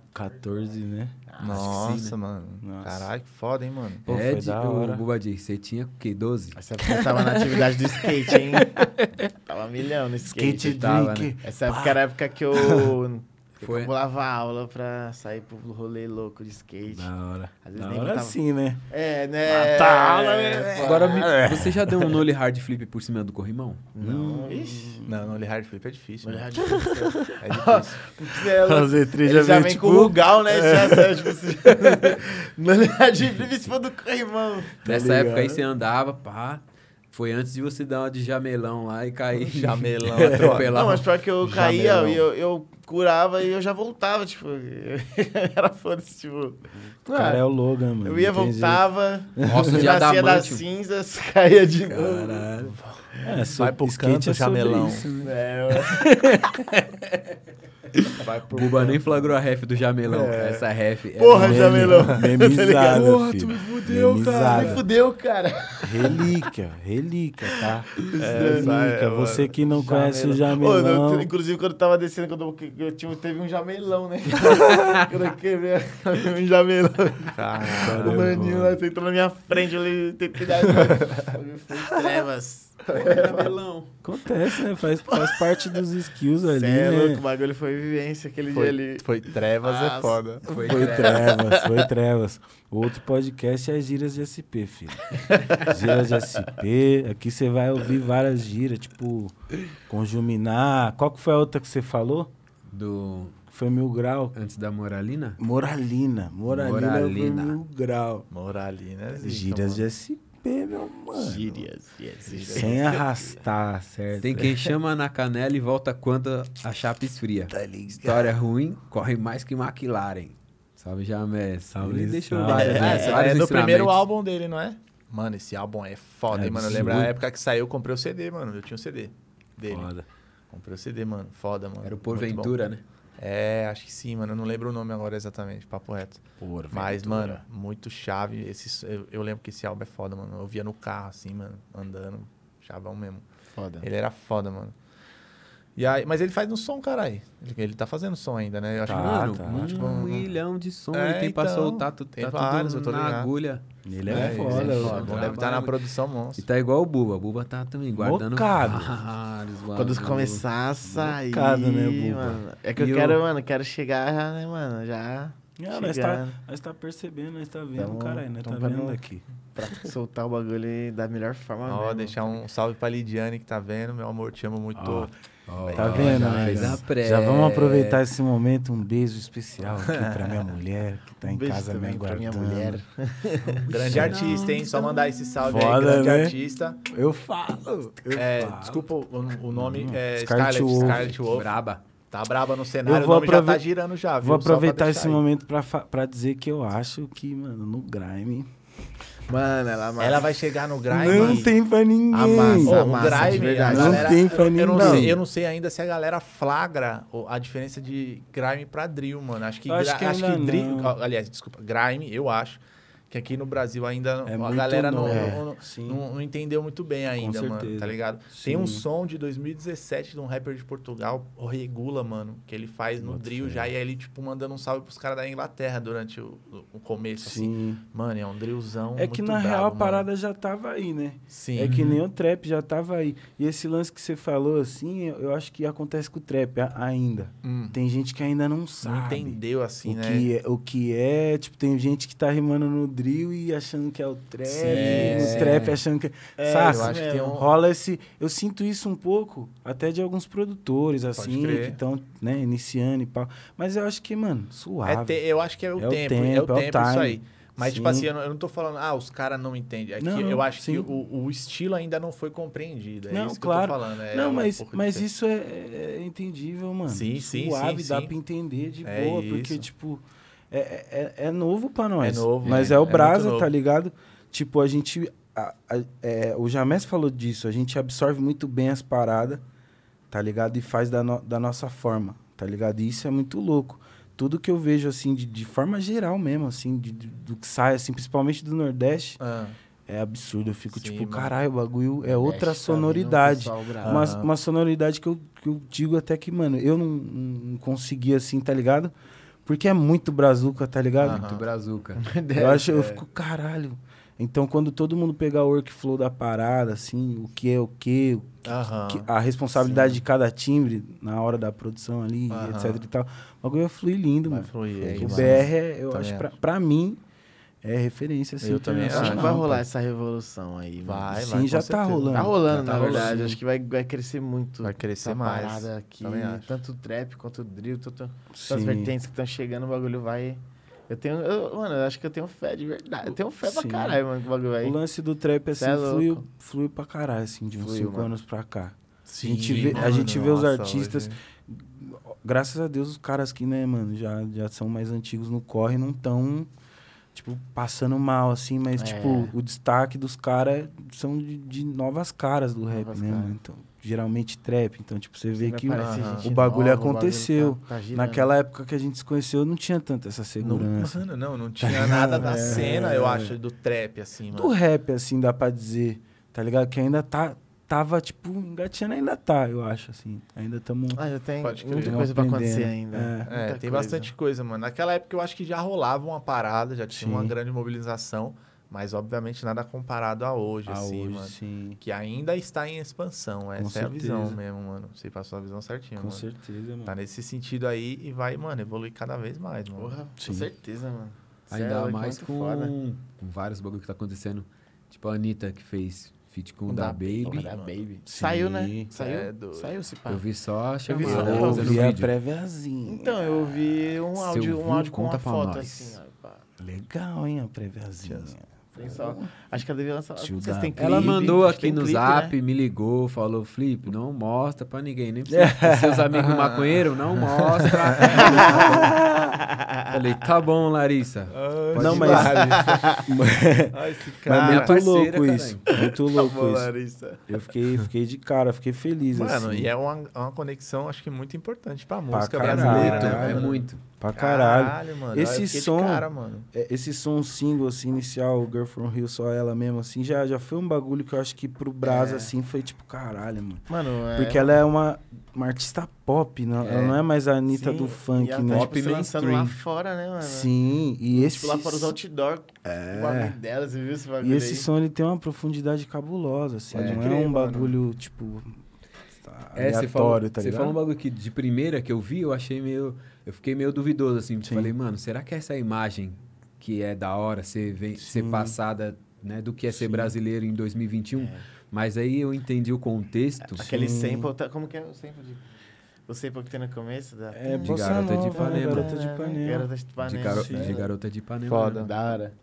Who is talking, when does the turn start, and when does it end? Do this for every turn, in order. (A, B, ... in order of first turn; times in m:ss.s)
0:00.1-0:01.2 A
0:01.3-0:01.7 B
0:01.4-0:04.0 C
0:01.4-0:02.2 D
0:02.6-0:03.1 A
0:04.0-0:05.0 A
0:04.0-0:06.6 D
0:06.6-0:10.9 B
0:07.1-0:07.3 A
0:10.2-0:12.9 A
0:10.6-0:11.3 D
0:11.4-0:17.1 B
0:13.6-0:13.9 D
0:16.9-0:18.8 A
0:17.6-0:21.3 B
0:19.5-0:24.5 D
0:20.8-0:22.2 A
0:23.9-0:25.1 B
0:24.0-0:25.1 A
0:25.0-0:26.8 C
0:26.2-0:34.8 B
0:26.9-0:27.3 A
0:27.4-0:28.2 C
0:28.3-0:32.2 A
0:34.8-0:35.6 A
0:34.8-0:41.1 D
0:39.4-0:40.7 C
0:40.2-0:40.6 A
0:40.6-0:47.4 B
0:41.4-0:42.2 A
0:47.0-0:48.8 A
0:48.0-0:52.5 B
0:49.4-0:49.9 A
0:49.4-0:50.6 D
0:51.9-0:56.7 A
0:52.6-0:55.0 C
0:55.2-0:56.0 B
0:58.1-0:59.4 C
0:58.5-1:02.0 D
1:00.1-1:00.6 C
1:01.2-1:03.1 B
1:01.3-1:04.8 A
1:01.9-1:02.2 C
1:02.9-1:04.8 C
1:04.2-1:06.3 B
1:05.8-1:11.3 A
1:08.0-1:09.0 B
1:08.2-1:09.5 C
1:09.6-1:23.5 B
1:17.3-1:18.6 C
1:17.8-1:18.8 A
1:22.9-1:23.9 D
1:24.0-1:27.2 A
1:26.4-1:29.0 B
1:28.5-1:30.4 C
1:29.6-1:31.8 B
1:30.5-1:31.3 D
1:30.5-1:42.3 A
1:42.7-1:43.4 D
1:43.5-1:44.3 A
1:44.3-1:45.4 D
1:45.4-1:48.2 A
1:46.5-1:47.6 D
1:48.3-1:49.8 C
1:49.1-1:51.7 A
1:51.1-1:53.4 B
1:52.3-1:52.8 C
1:52.5-1:54.6 A
1:54.2-2:04.0 D
1:57.5-1:58.3 A
2:01.7-2:03.0 A
2:02.5-2:03.2 B
2:02.6-2:09.9 C
2:06.3-2:07.1 D
2:09.7-2:10.0 A
2:10.5-2:12.5 C
2:11.8-2:12.8 D
2:13.2-2:23.2 C
2:16.4-2:17.4 A
2:23.5-2:23.9 B
2:23.8-2:24.8 C
2:25.8-2:30.3 C
2:28.8-2:29.7 A
2:28.8-2:35.8 D
2:30.9-2:33.3 C
2:33.8-2:35.2 A
2:34.1-2:36.4 C
2:34.1-2:35.1 B
2:36.4-2:40.4 D
2:37.9-2:38.9 A
2:39.7-2:46.4 B
2:40.8-2:42.4 A
2:42.8-2:43.2 D
2:45.6-2:49.2 A
2:47.8-2:49.0 B
2:49.5-2:52.4 B
2:51.6-2:55.1 C
2:54.8-2:55.1 A
2:55.5-2:58.0 D
2:55.6-2:56.8 C
2:55.7-3:02.8 A
2:59.8-3:00.4 C
3:01.2-3:03.7 B
3:03.6-3:05.1 D
3:03.7-3:06.8 C
3:03.9-3:04.3 A
3:05.4-3:08.9 A
3:08.1-3:11.6 C
3:09.5-3:11.2 A
3:10.8-3:11.8 D
3:12.1-3:15.2 C
3:12.8-3:13.6 A
3:14.2-3:18.5 A
3:19.3-3:20.3 B
3:20.0-3:21.5 C
3:20.9-3:25.2 A
3:21.0-3:21.4 B
3:22.1-3:25.1 B
3:22.6-3:50.1 C
3:29.6-3:31.0 A
3:34.2-3:36.0 A
3:35.0-3:35.4 B
3:37.2-3:38.8 A
3:43.0-3:43.7 A
3:47.2-3:47.8 A
3:48.9-4:15.2 A
3:51.3-3:52.0 C
3:57.4-3:57.8 C
3:58.8-4:00.3 C
4:04.5-4:05.7 C
4:04.6-4:05.6 B
4:06.4-4:07.4 B
4:06.6-4:07.5 C
4:11.2-4:11.8 C
4:14.8-4:25.0 C
4:15.8-4:18.1 A
4:20.0-4:20.9 A
4:23.1-4:39.4 A
4:26.9-4:28.1 C
4:28.8-4:29.6 C
4:32.0-4:33.5 C
4:40.1-4:49.2 A
4:49.2-4:49.6 C
4:49.9-4:58.9 A
4:50.7-4:51.3 C
4:52.0-4:54.1 B
4:53.8-4:54.3 C
4:59.4-5:01.2 A
5:01.0-5:02.0 D
5:01.0-5:01.4 C
5:02.0-5:03.0 B
5:02.3-5:17.0 A
5:08.4-5:09.0 C
5:09.6-5:10.0 B
5:12.3-5:12.8 C
5:14.3-5:16.3 C
5:14.9-5:15.4 B
5:17.6-5:19.6 A
5:18.4-5:19.5 C
5:18.9-5:21.2 B
5:20.8-5:23.3 C
5:21.1-5:22.4 A
5:22.1-5:34.8 B
5:22.5-5:23.4 D
5:24.6-5:26.6 C
5:28.3-5:28.9 A
5:33.4-5:34.0 A
5:34.6-5:46.5 A
5:35.6-5:36.2 B
5:37.6-5:38.1 B
5:39.1-5:41.2 C
5:39.4-5:39.9 D
5:47.1-6:01.0 A
5:48.8-5:49.3 B
5:52.7-5:53.3 B
5:55.3-5:58.3 B
5:55.7-5:56.3 C
6:00.4-6:04.5 C
6:01.6-6:03.4 A
6:02.2-6:03.0 B
6:04.3-6:11.0 A
6:10.9-6:14.1 B
6:11.4-6:12.0 C
6:11.6-6:13.3 A
6:13.3-6:26.2 C
6:16.9-6:17.4 A
6:20.6-6:21.8 A
6:23.6-6:24.4 A
6:26.0-6:26.9 A
6:26.8-6:29.9 C
6:29.7-6:32.7 B
6:30.2-6:30.5 A
6:31.5-6:37.5 D
6:36.7-6:40.2 B
6:37.2-6:37.7 C
6:38.1-6:38.9 A
6:38.9-6:39.7 C
6:40.1-6:42.1 D
6:40.9-6:41.8 B
6:41.0-6:43.2 A
6:41.0-6:41.8 C
6:42.8-6:46.4 B
6:44.2-6:46.0 D
6:46.6-6:49.6 A
6:48.0-6:48.3 C
6:48.8-6:52.3 B
6:50.2-6:51.2 A
6:50.8-6:59.0 D
6:55.3-6:56.2 A
6:56.2-6:58.3 C
6:58.0-6:59.2 A
6:58.1-6:58.9 B
6:59.9-7:02.4 D
7:01.3-7:02.9 C
7:01.8-7:06.7 A
7:02.0-7:03.0 B
7:03.7-7:04.8 C
7:04.4-7:05.6 D
7:05.7-7:07.2 B
7:07.3-7:09.7 A
7:09.1-7:13.6 C
7:12.1-7:28.7 A
7:12.4-7:13.8 D
7:14.1-7:16.5 C
7:21.8-7:22.3 B
7:23.7-7:24.5 B
7:26.6-7:27.0 D
7:27.5-7:30.5 B
7:28.5-7:29.6 D
7:30.2-7:32.0 A
7:31.1-7:34.7 B
7:32.6-7:33.4 A
7:34.2-7:38.6 A
7:36.7-7:37.8 C
7:36.7-7:37.1 D
7:39.2-7:40.8 A
7:39.5-7:53.6 D
7:44.4-7:44.7 A
7:48.0-7:48.6 A
7:49.7-7:50.1 A
7:51.2-7:51.4 B
7:53.5-7:55.5 B
7:53.6-7:54.3 A
7:56.1-8:00.9 B
7:57.3-7:59.7 A
7:57.6-7:58.9 D
8:00.0-8:01.8 D
8:00.3-8:00.8 A
8:01.4-8:01.9 C
8:01.7-8:02.3 B